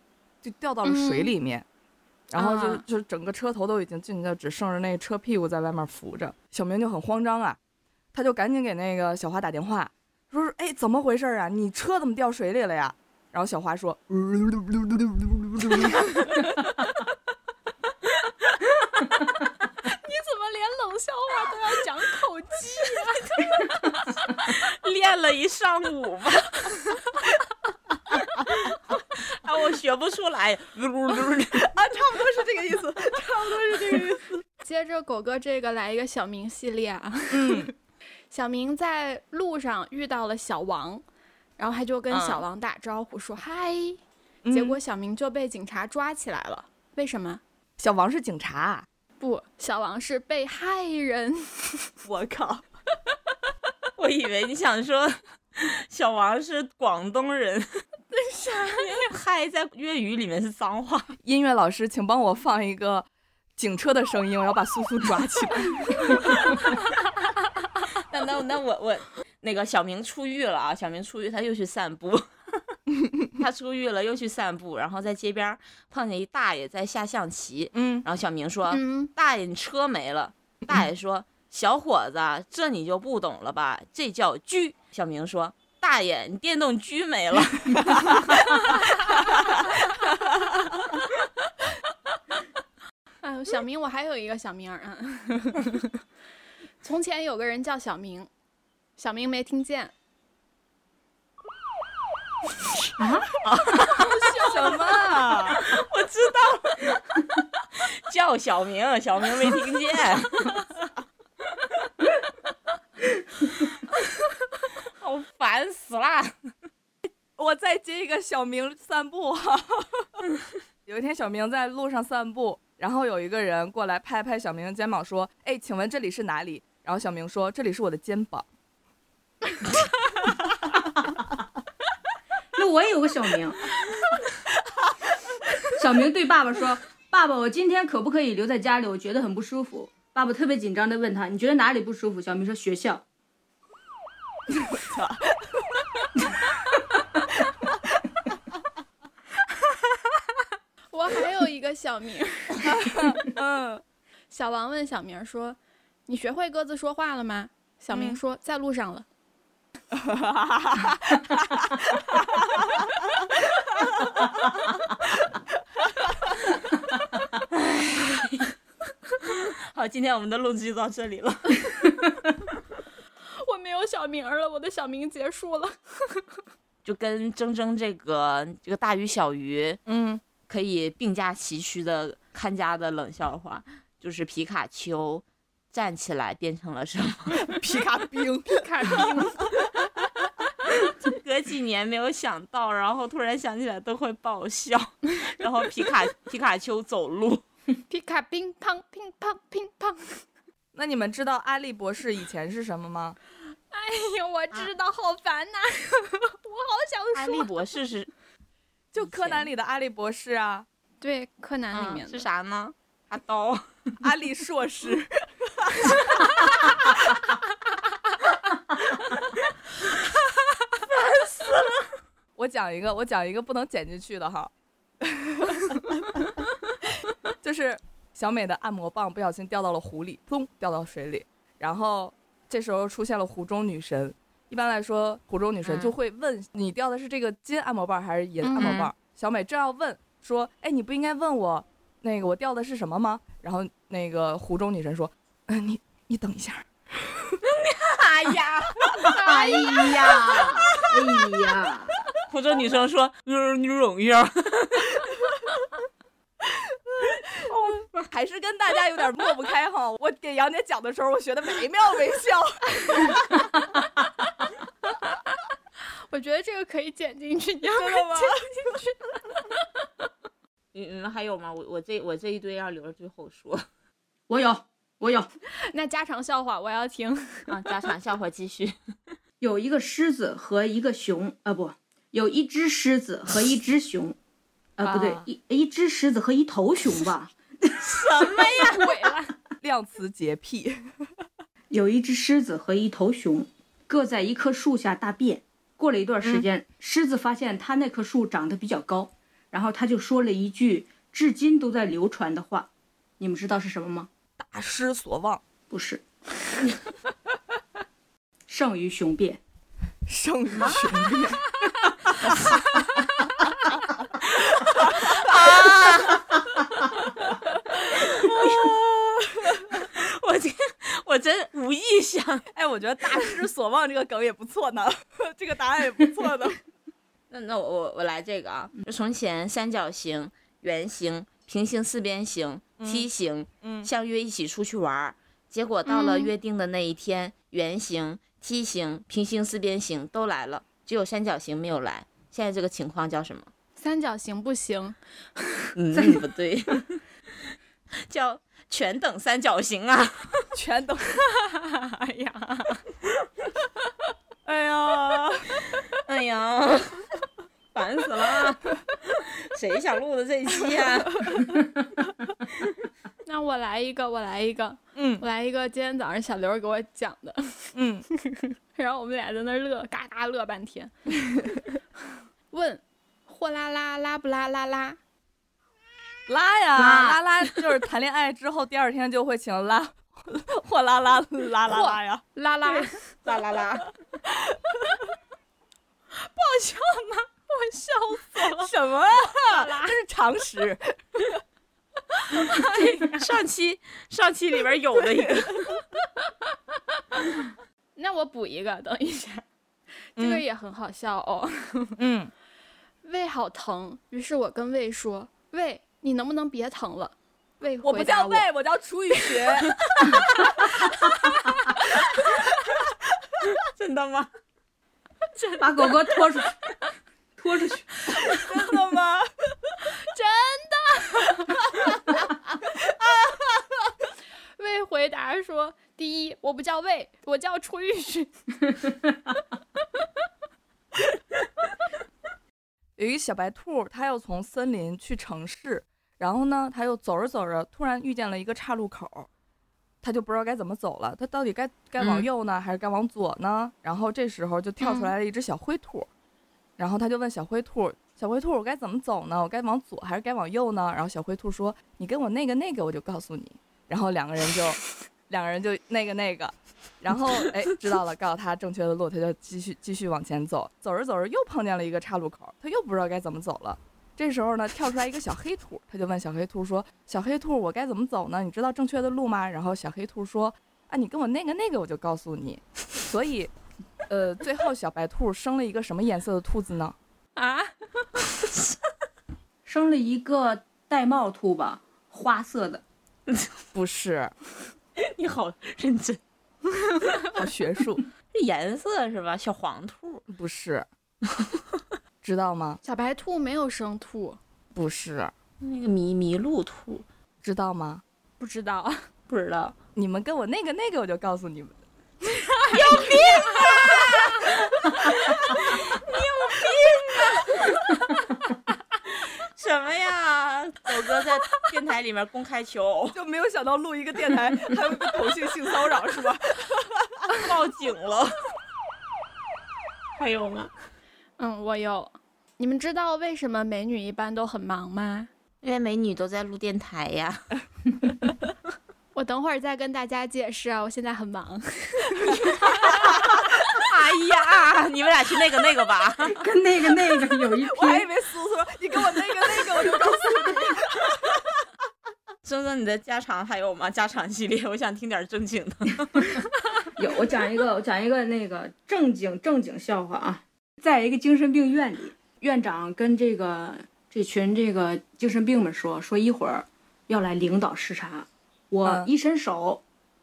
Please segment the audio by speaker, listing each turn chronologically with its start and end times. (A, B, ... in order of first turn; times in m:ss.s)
0:00.4-0:01.6 A
0:00.8-0:01.3 B
0:02.3-0:07.6 A
0:02.4-0:02.8 B
0:08.1-0:16.5 A
0:19.8-0:23.7 B
0:24.3-0:26.8 C
0:28.7-0:31.7 C
0:31.5-0:34.4 A
0:34.6-0:37.7 B
0:37.3-0:37.7 A
0:38.3-0:41.0 B
0:41.6-0:44.0 B
0:42.1-0:42.4 C
0:44.4-0:44.8 A
0:44.5-0:47.4 B
0:47.8-0:48.8 A
0:49.2-0:51.9 B
0:52.0-0:52.6 A
0:54.0-0:57.7 C
0:58.1-0:58.9 B
0:58.7-1:01.2 C
1:01.2-1:06.2 A
1:08.0-1:12.3 C
1:13.4-1:28.3 C
1:17.7-1:18.0 A
1:18.7-1:19.1 B
1:27.8-1:28.1 A
1:33.2-1:35.9 B
1:36.8-1:38.3 B
1:39.0-1:39.9 B
1:43.0-1:43.3 D
1:43.5-1:45.6 A
1:43.7-1:44.1 C
1:45.2-1:47.2 C
1:47.8-1:50.6 C
1:55.0-1:56.3 C
1:57.4-2:00.1 A
2:00.8-2:08.4 A
2:12.5-2:13.6 D
2:15.8-2:23.0 D
2:24.7-2:25.8 A
2:30.9-2:32.7 B
2:32.6-2:33.8 A
2:34.3-2:39.0 B
2:39.9-2:42.8 A
2:43.8-2:44.2 A
2:47.5-2:48.5 C
2:49.2-2:52.0 C
2:53.4-2:56.4 B
2:56.8-2:59.8 C
2:59.9-3:00.2 A
3:00.5-3:07.6 C
3:07.3-3:09.1 A
3:08.5-3:09.5 B
3:10.8-3:17.4 C
3:17.9-3:20.2 B
3:20.7-3:23.2 A
3:23.7-3:27.5 B
3:27.1-3:28.1 C
3:28.9-3:30.6 A
3:29.0-3:29.5 C
3:31.0-3:32.2 B
3:31.7-3:33.6 C
3:34.0-3:36.2 A
3:40.8-3:41.9 C
3:42.4-3:44.5 A
3:45.0-3:45.9 A
3:47.4-4:07.4 A
3:55.6-3:55.9 C
3:58.4-3:58.8 B
3:58.5-3:58.9 C
4:07.4-4:11.6 C
4:09.1-4:11.9 D
4:12.3-4:15.0 C
4:16.4-4:17.1 A
4:17.4-4:18.1 C
4:18.1-4:23.5 A
4:26.1-4:29.6 B
4:27.8-4:28.5 A
4:30.7-4:33.6 C
4:34.3-4:35.3 D
4:35.7-4:37.5 B
4:37.5-4:38.9 C
4:39.4-4:44.2 D
4:44.8-4:48.4 D
4:44.8-4:45.2 A
4:47.8-4:48.8 C
4:48.2-4:49.3 B
4:49.6-4:50.8 A
4:51.7-5:04.1 D
5:04.4-5:05.4 A
5:05.7-5:06.7 D
5:08.5-5:09.4 D
5:10.1-5:11.5 A
5:14.5-5:16.4 C
5:14.7-5:15.4 A
5:17.9-5:19.8 A
5:18.0-5:18.8 C
5:19.8-5:22.4 C
5:22.5-5:26.6 A
5:27.3-5:43.5 C
5:32.8-5:33.1 A
5:33.6-5:33.9 A
5:35.8-5:36.3 B
5:43.8-5:45.7 B
5:45.8-5:47.0 C
5:48.0-5:50.4 C
5:50.5-5:51.2 A
5:51.3-5:52.8 B
5:54.4-5:55.6 A
5:56.0-5:57.0 C
5:57.7-6:01.3 C
6:01.2-6:01.5 A
6:03.2-6:10.9 B
6:05.0-6:05.2 A
6:07.7-6:08.0 A
6:12.5-6:15.0 B
6:16.3-6:22.8 A
6:16.7-6:17.2 C
6:21.7-6:22.9 B
6:23.2-6:23.9 C
6:24.2-6:24.9 A
6:26.2-6:28.7 B
6:28.4-6:31.4 A
6:29.3-6:30.0 B
6:32.3-6:33.3 B
6:33.0-6:35.7 C
6:38.0-6:39.4 B
6:40.2-6:42.0 B
6:40.2-6:40.4 A
6:42.0-6:42.3 A
6:43.0-6:48.5 B
6:47.8-6:49.8 A
6:51.2-6:51.5 B
6:53.6-6:54.3 C
6:55.3-6:55.9 B
6:55.6-6:56.5 D
6:57.4-6:57.9 D
6:58.2-6:59.3 A
6:59.9-7:01.8 B
7:04.6-7:08.7 B
7:13.0-7:19.3 A
7:20.0-7:26.1 A
7:22.0-7:22.3 C
7:24.8-7:25.1 B
7:26.8-7:53.5 A
7:54.1-7:57.0 A
7:57.4-7:57.7 B
7:59.6-8:02.8 D
8:03.7-8:04.3 A
8:05.0-8:06.2 C
8:07.3-8:08.0 A
8:08.3-8:10.2 C
8:10.3-8:10.9 A
8:11.3-8:11.8 C
8:12.2-8:12.8 A
8:12.8-8:14.4 B
8:14.7-8:15.3 A
8:15.6-8:17.0 C
8:17.4-8:18.0 A
8:18.4-8:19.0 B
8:19.3-8:19.8 C
8:20.0-8:21.8 A
8:22.5-8:23.6 B
8:22.7-8:28.0 C
8:29.1-8:33.2 C
8:33.1-8:37.2 A
8:37.3-8:38.3 C
8:40.2-8:40.7 C
8:41.4-8:45.3 B
8:45.6-8:47.5 C
8:49.1-8:52.9 B
8:52.8-8:56.4 C
8:56.3-8:58.1 D
8:57.6-9:01.2 A
9:02.4-9:06.4 C
9:07.0-9:19.8 D